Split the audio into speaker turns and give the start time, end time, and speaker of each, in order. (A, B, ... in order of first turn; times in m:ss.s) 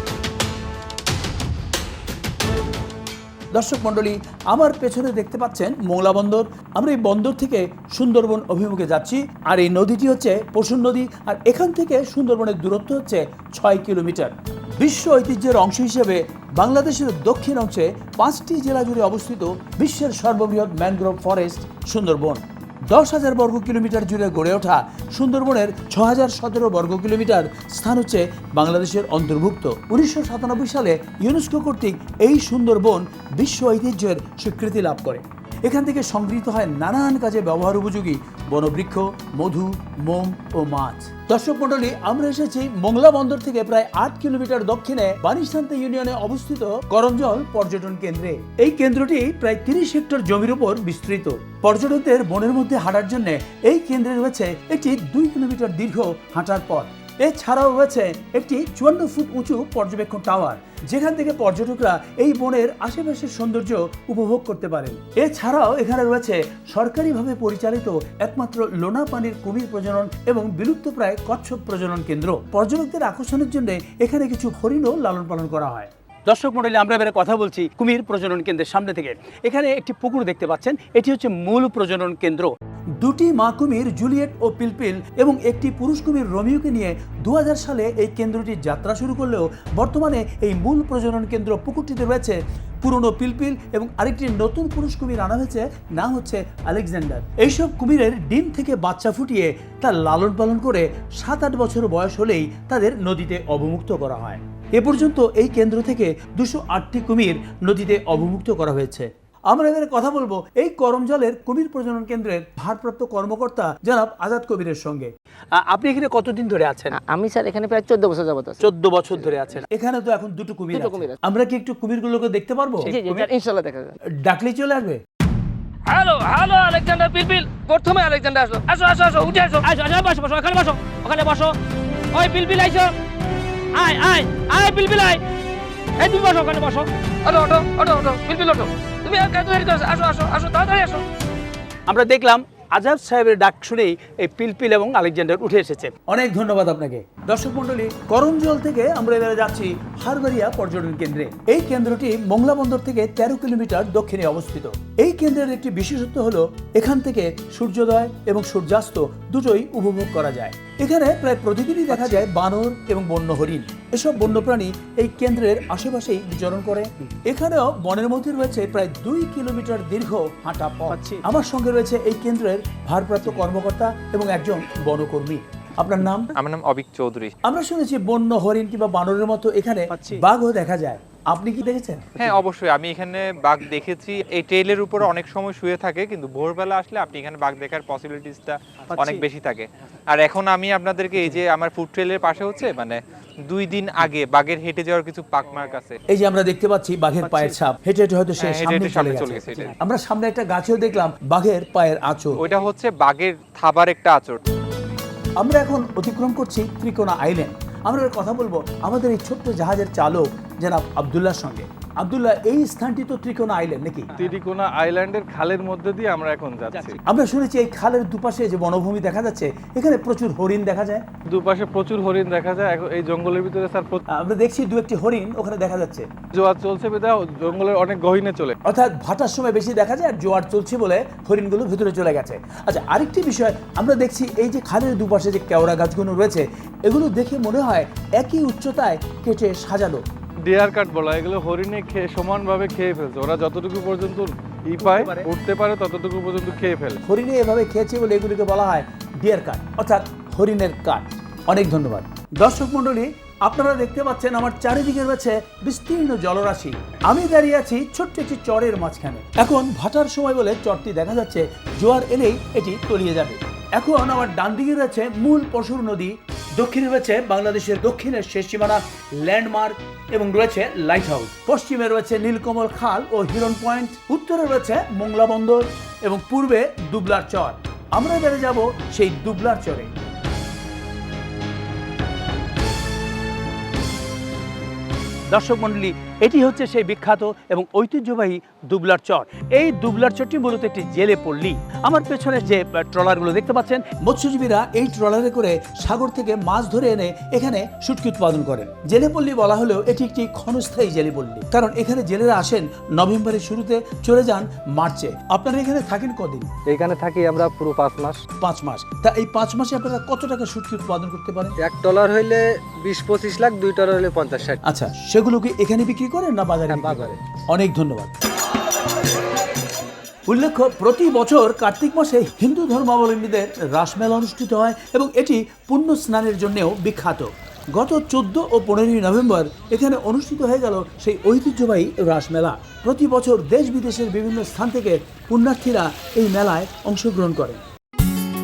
0:03.5-1:57.0 A
1:56.9-1:59.5 B
1:58.6-2:03.2 A
2:00.7-2:01.2 B
2:02.8-2:03.9 B
2:04.1-2:05.0 A
2:05.9-2:11.6 C
2:12.1-2:12.9 C
2:12.5-2:12.8 B
2:13.7-2:15.2 C
2:16.0-2:21.0 C
2:21.9-2:56.3 A
2:56.3-2:57.3 D
2:57.4-3:02.4 A
3:02.2-3:16.0 D
3:16.1-3:22.4 A
3:18.4-3:19.8 D
3:22.4-3:24.4 D
3:25.4-3:34.1 A
3:34.2-3:37.0 E
3:36.9-3:41.0 A
3:41.3-3:44.0 E
3:44.1-3:46.1 A
3:46.3-3:48.5 E
3:48.6-4:00.0 A
4:00.4-4:07.0 E
4:04.8-4:05.3 A
4:07.0-4:39.9 A
4:45.3-5:06.5 A
5:06.6-5:08.2 F
5:08.4-5:11.6 A
5:11.6-5:14.6 F
5:14.6-5:18.1 A
5:16.7-5:17.1 F
5:20.3-5:37.6 A